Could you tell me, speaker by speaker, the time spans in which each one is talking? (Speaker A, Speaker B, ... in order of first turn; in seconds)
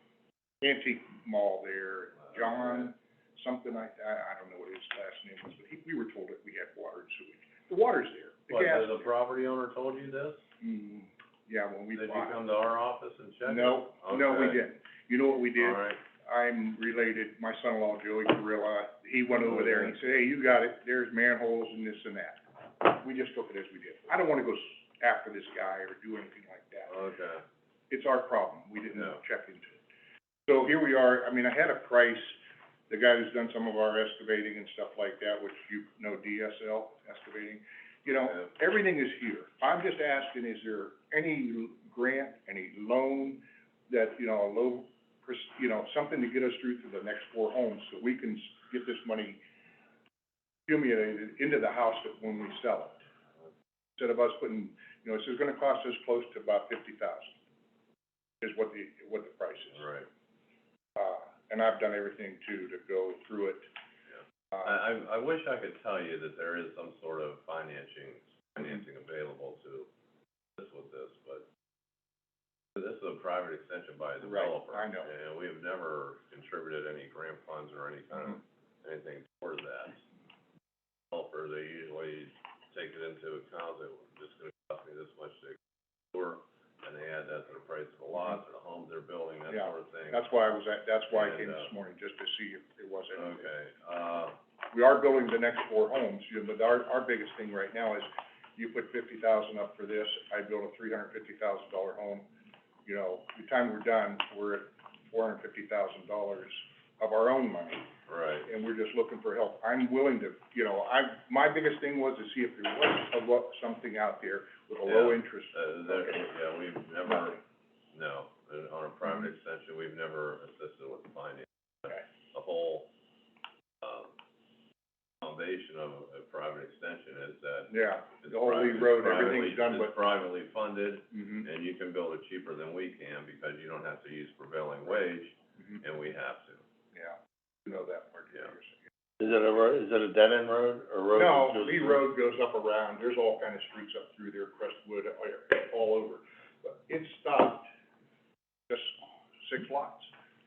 Speaker A: 0.6-9.1, 10.6-12.4, 13.4-26.9, 27.9-29.8, 30.5-32.4, 32.9-49.4, 50.7-53.0, 54.0-57.3, 58.4-59.9, 61.0-63.7, 74.2-75.1, 89.5-93.5, 94.7-102.3, 102.8-107.9, 108.5-116.2, 127.7-129.9, 131.1-131.4, 136.9-138.8, 141.1-147.7, 148.7-150.1
Speaker B: 2.3-2.9, 8.5-10.4, 11.9-14.6, 15.6-16.0, 19.5-19.9, 26.9-27.4, 59.8-60.1, 64.6-69.9, 70.6-71.5, 72.8-80.0, 81.1-85.6, 86.1-90.2, 91.1-91.7, 93.1-94.3, 108.1-108.5, 114.8-117.4, 117.9-122.9, 123.8-124.1, 125.2-136.6
Speaker C: 139.2-142.0